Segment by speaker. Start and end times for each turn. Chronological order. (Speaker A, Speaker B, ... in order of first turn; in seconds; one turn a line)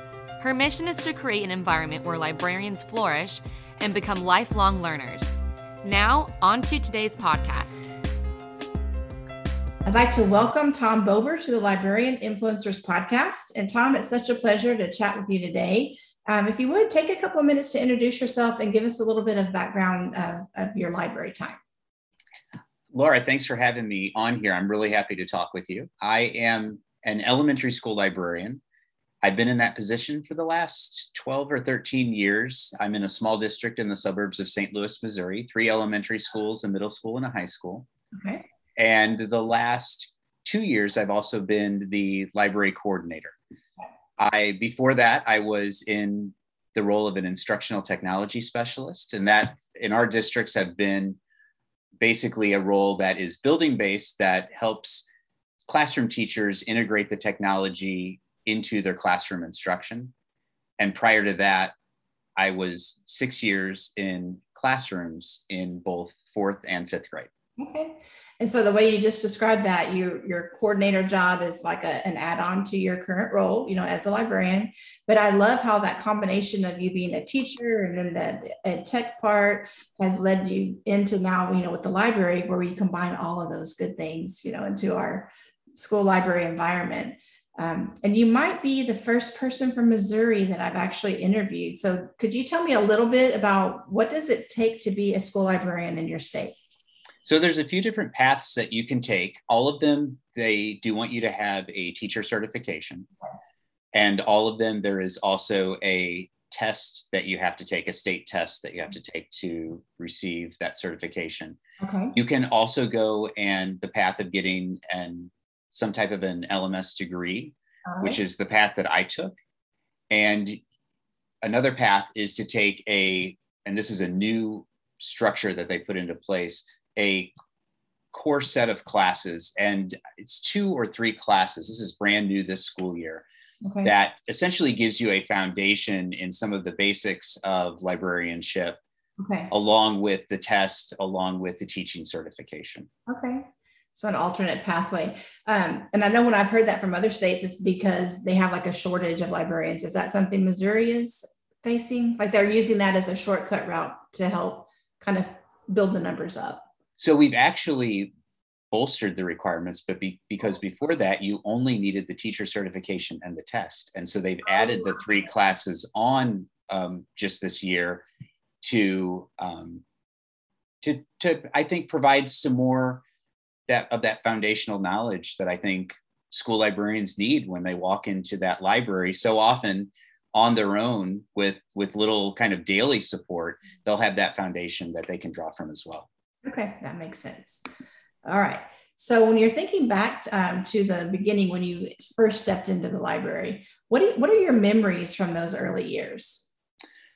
Speaker A: 0.4-7.9
Speaker B: 9.8-21.6
Speaker C: 22.9-28.6
Speaker C: 29.2-37.9
Speaker B: 38.1-38.4
Speaker C: 38.8-43.4
Speaker C: 44.2-51.2
Speaker C: 52.0-55.1
Speaker C: 55.7-60.1
Speaker C: 60.8-61.7
Speaker C: 62.4-67.3
Speaker B: 67.6-96.6
Speaker C: 97.2-103.1
Speaker C: 103.9-111.6
Speaker B: 111.8-112.2
Speaker C: 112.1-119.3
Speaker B: 117.8-118.2
Speaker C: 120.1-120.6
Speaker C: 121.4-127.3
Speaker C: 128.1-133.2
Speaker B: 133.6-133.9
Speaker C: 133.8-138.8
Speaker B: 139.2-139.5
Speaker C: 139.5-142.9
Speaker B: 143.1-156.7
Speaker C: 157.0-158.1
Speaker C: 158.7-168.0
Speaker C: 168.6-169.8
Speaker C: 170.8-173.0
Speaker C: 173.7-186.1
Speaker B: 186.4-187.6
Speaker B: 188.2-196.5